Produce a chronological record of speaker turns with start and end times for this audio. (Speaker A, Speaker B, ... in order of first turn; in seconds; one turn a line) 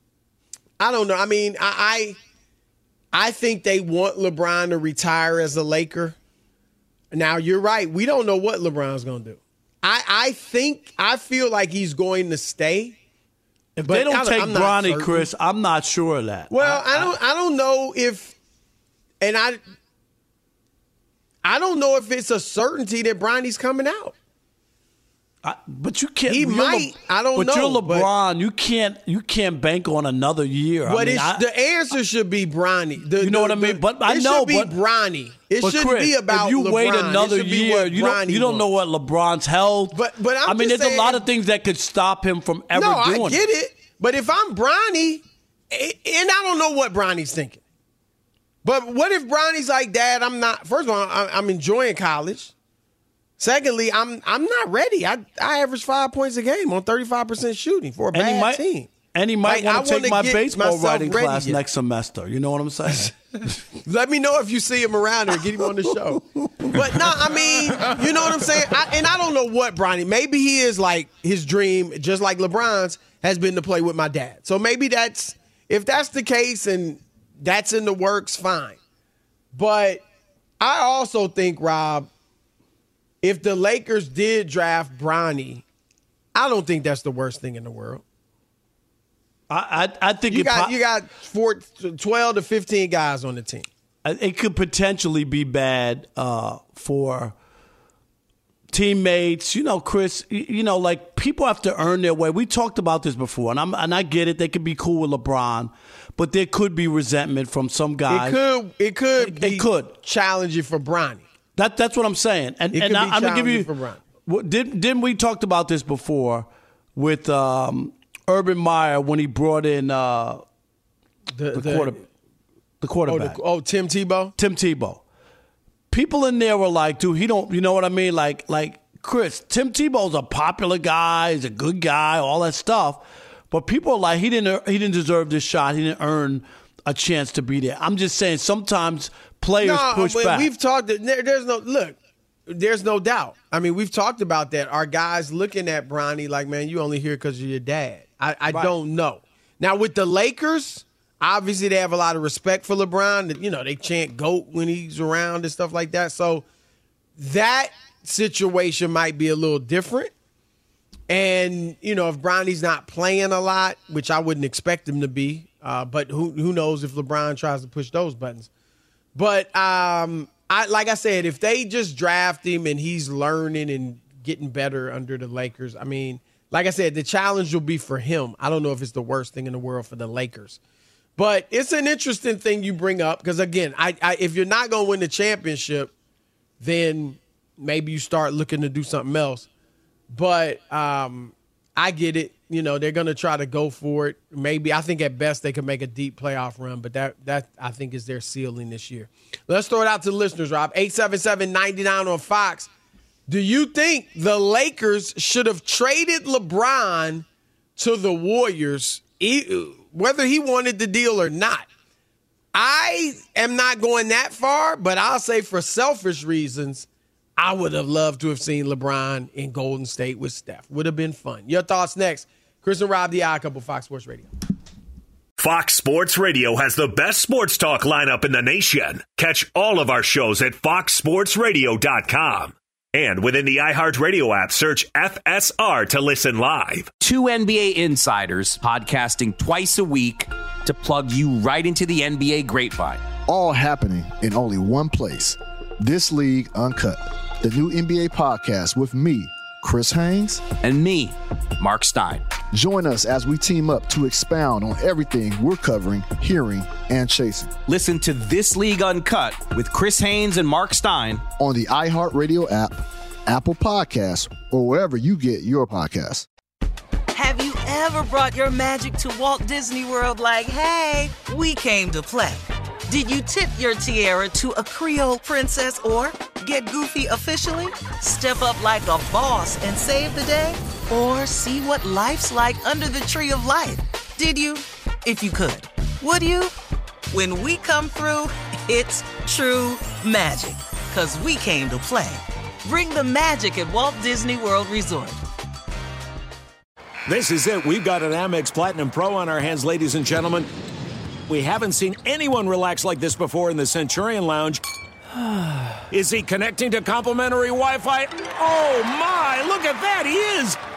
Speaker A: 0.8-2.2
Speaker A: 3.1-6.2
Speaker A: 7.1-12.9
Speaker B: 13.8-17.1
Speaker A: 13.8-15.3
Speaker A: 16.5-18.3
Speaker A: 19.2-19.6
Speaker A: 21.4-24.1
Speaker B: 25.4-31.4
Speaker A: 26.3-28.1
Speaker A: 30.9-38.6
Speaker B: 33.2-34.7
Speaker B: 35.6-43.4
Speaker A: 39.9-41.2
Speaker A: 42.7-47.6
Speaker A: 48.6-52.5
Speaker A: 53.4-58.9
Speaker B: 58.1-58.6
Speaker B: 59.1-63.1
Speaker A: 59.5-61.6
Speaker A: 63.8-78.8
Speaker B: 66.6-67.2
Speaker A: 79.5-80.0
Speaker A: 80.6-82.1
Speaker A: 83.2-85.6
Speaker A: 86.3-88.0
Speaker B: 89.5-90.7
Speaker A: 90.3-93.7
Speaker B: 94.0-97.3
Speaker B: 98.7-108.4
Speaker A: 108.1-111.2
Speaker B: 109.2-109.9
Speaker B: 111.5-113.7
Speaker A: 112.7-114.0
Speaker B: 114.2-120.4
Speaker A: 121.3-122.0
Speaker B: 121.5-122.0
Speaker B: 122.8-123.4
Speaker A: 123.1-124.3
Speaker B: 124.4-125.0
Speaker B: 125.9-140.5
Speaker A: 139.6-156.4
Speaker B: 148.5-148.7
Speaker A: 157.2-160.1
Speaker A: 161.1-168.5
Speaker A: 169.1-180.6
Speaker A: 181.2-185.9
Speaker A: 186.6-189.5
Speaker A: 190.1-202.7
Speaker A: 203.3-207.2
Speaker A: 207.8-211.7
Speaker A: 212.5-224.3
Speaker C: 225.4-236.9
Speaker D: 237.0-243.0
Speaker E: 243.3-250.6
Speaker D: 250.6-252.2
Speaker E: 252.5-257.6
Speaker D: 257.6-261.2
Speaker E: 261.4-266.2
Speaker F: 267.1-286.5
Speaker F: 287.1-295.2
Speaker G: 297.1-300.5
Speaker G: 301.3-304.6
Speaker G: 305.9-310.6